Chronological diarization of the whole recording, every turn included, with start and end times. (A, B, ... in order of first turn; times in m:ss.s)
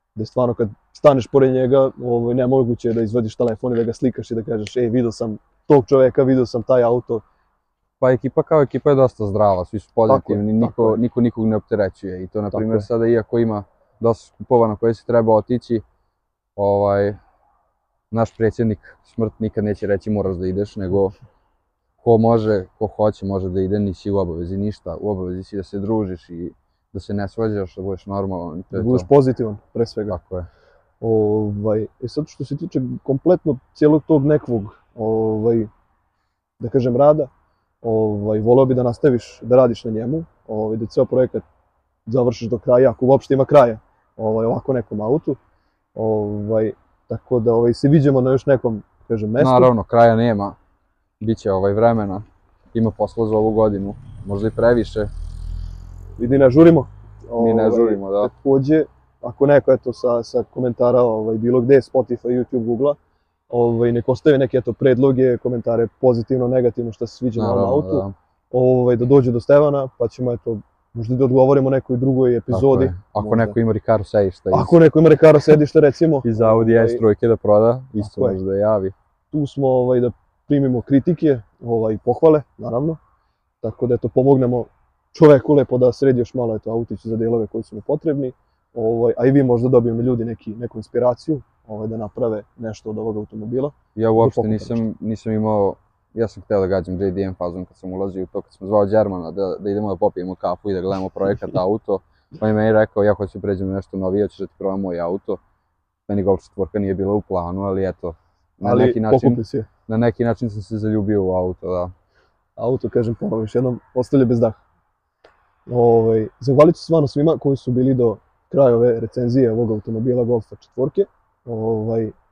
0:00.2-0:07.2 A
0:08.0-0:15.8 B
0:10.1-0:11.0 A
0:12.5-0:12.9 A
0:16.6-0:17.2 B
0:18.1-0:21.2 B
0:22.0-0:29.1 B
0:28.7-0:30.2 A
0:30.1-0:30.5 B
0:31.0-0:35.7 A
0:36.6-0:37.3 A
0:37.8-0:41.4 A
0:42.1-0:45.4 A
0:46.0-0:49.7 A
0:49.4-0:50.6 B
0:51.2-0:55.1 B
0:56.2-1:03.0 A
0:57.4-0:58.3 B
1:03.5-1:13.6 A
1:07.4-1:08.2 B
1:12.5-1:14.8 B
1:14.5-1:17.0 A
1:16.2-1:18.9 B
1:18.0-1:18.4 A
1:19.3-1:23.0 A
1:23.6-1:34.8 A
1:34.0-1:45.4 B
1:46.1-1:51.9 B
1:48.6-1:49.7 A
1:52.6-1:54.6 A
1:55.7-2:02.2 A